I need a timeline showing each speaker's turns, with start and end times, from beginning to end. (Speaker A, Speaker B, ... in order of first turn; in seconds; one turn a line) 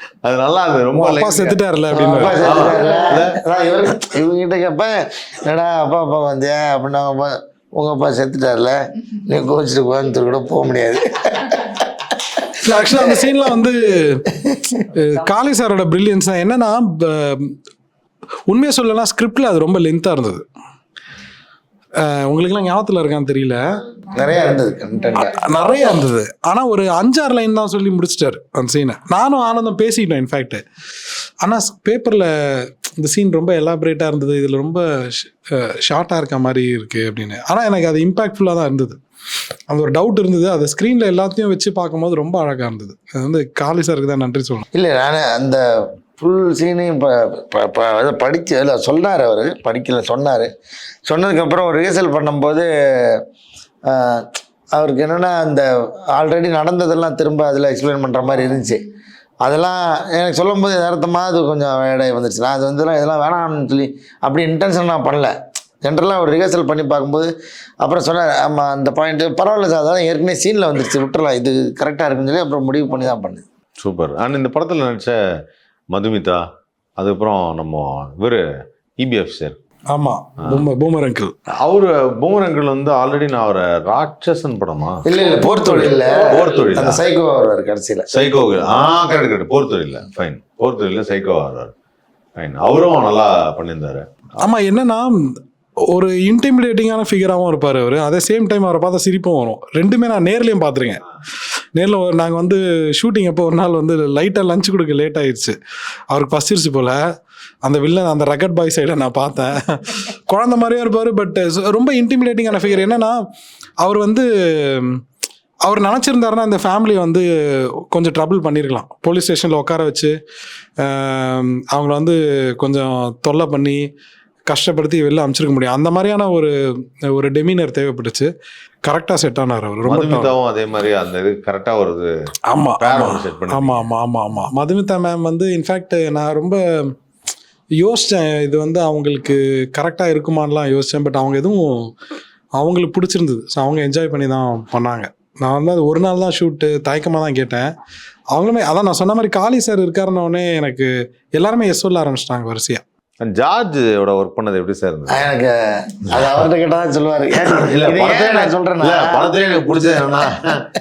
Speaker A: 0.2-1.6
Speaker B: 0.9-2.6
Speaker C: 1.9-11.8
Speaker A: 2.4-3.4
Speaker B: 12.6-14.3
Speaker C: 12.8-13.2
Speaker C: 14.5-14.8
Speaker B: 14.9-17.6
Speaker B: 18.5-20.4
Speaker B: 22.0-23.6
Speaker C: 24.1-25.4
Speaker B: 25.2-30.6
Speaker B: 31.4-39.0
Speaker B: 39.7-44.6
Speaker C: 44.7-45.6
Speaker C: 46.1-50.5
Speaker C: 51.1-53.2
Speaker C: 53.9-58.8
Speaker C: 59.4-67.3
Speaker C: 67.8-73.4
Speaker A: 73.8-75.2
Speaker A: 75.9-76.4
Speaker A: 77.0-78.4
Speaker A: 79.0-79.6
Speaker B: 79.9-81.3
Speaker A: 81.6-85.1
Speaker C: 85.0-88.1
Speaker B: 85.3-85.9
Speaker A: 85.8-87.0
Speaker A: 88.1-91.7
Speaker A: 92.4-94.1
Speaker B: 94.4-95.1
Speaker B: 95.9-101.0
Speaker B: 101.8-105.6
Speaker B: 106.1-107.0
Speaker B: 107.6-113.2
Speaker B: 113.8-115.0
Speaker B: 115.7-117.3
Speaker B: 117.9-120.2
Speaker B: 120.8-123.8
Speaker B: 124.5-126.5
Speaker B: 127.1-128.3
Speaker B: 128.8-130.3
Speaker A: 129.9-132.1
Speaker B: 132.5-136.9
Speaker A: 132.8-133.9
Speaker B: 137.8-141.9
Speaker B: 142.6-147.7
Speaker B: 148.3-152.8
Speaker A: 153.2-155.2
Speaker C: 155.1-160.3
Speaker A: 156.1-156.4
Speaker A: 157.5-160.7